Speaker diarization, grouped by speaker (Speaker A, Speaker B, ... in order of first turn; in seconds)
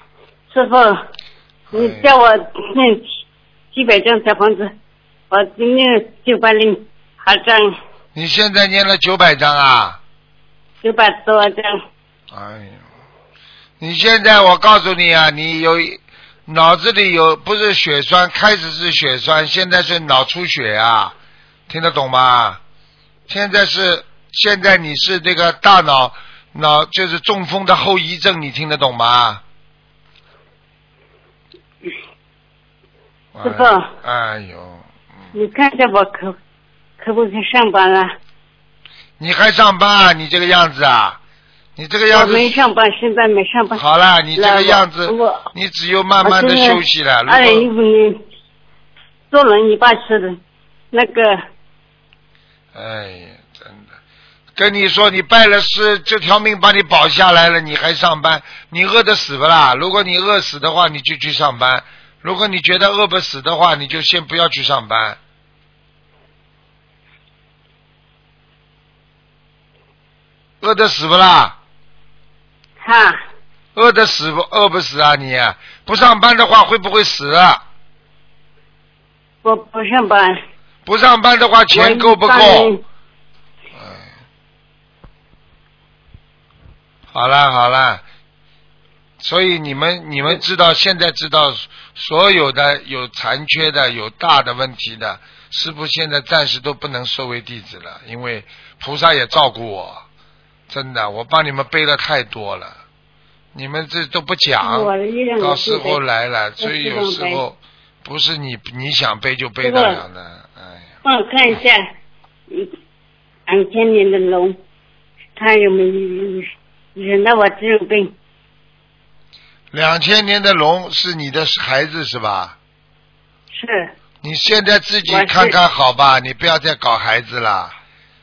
Speaker A: 0.5-1.1, 1.7-3.0, 3.7-4.7, 5.3-7.7, 10.8-11.8, 33.4-33.9, 35.3-36.4, 37.0-38.1, 42.1-43.8, 44.4-45.4, 46.2-48.2, 49.3-50.4, 50.9-51.4, 72.8-73.2, 79.4-80.4, 81.7-82.8, 104.6-106.0, 106.6-107.4, 109.6-110.0, 111.0-111.9, 113.5-114.6, 115.3-118.1, 123.5-123.9, 125.1-125.5
Speaker B: 1.7-2.1, 8.1-10.0, 12.3-12.8, 13.8-21.1, 21.7-22.6, 23.3-29.4, 33.3-35.3, 39.2-41.2, 41.8-42.6, 43.8-47.7, 52.7-53.9, 54.5-65.2, 70.6-71.5, 73.7-77.6, 80.8-82.7, 83.8-84.0, 87.1-88.0, 89.2-100.0, 100.7-102.8, 103.5-110.9, 119.7-122.5, 124.2-127.7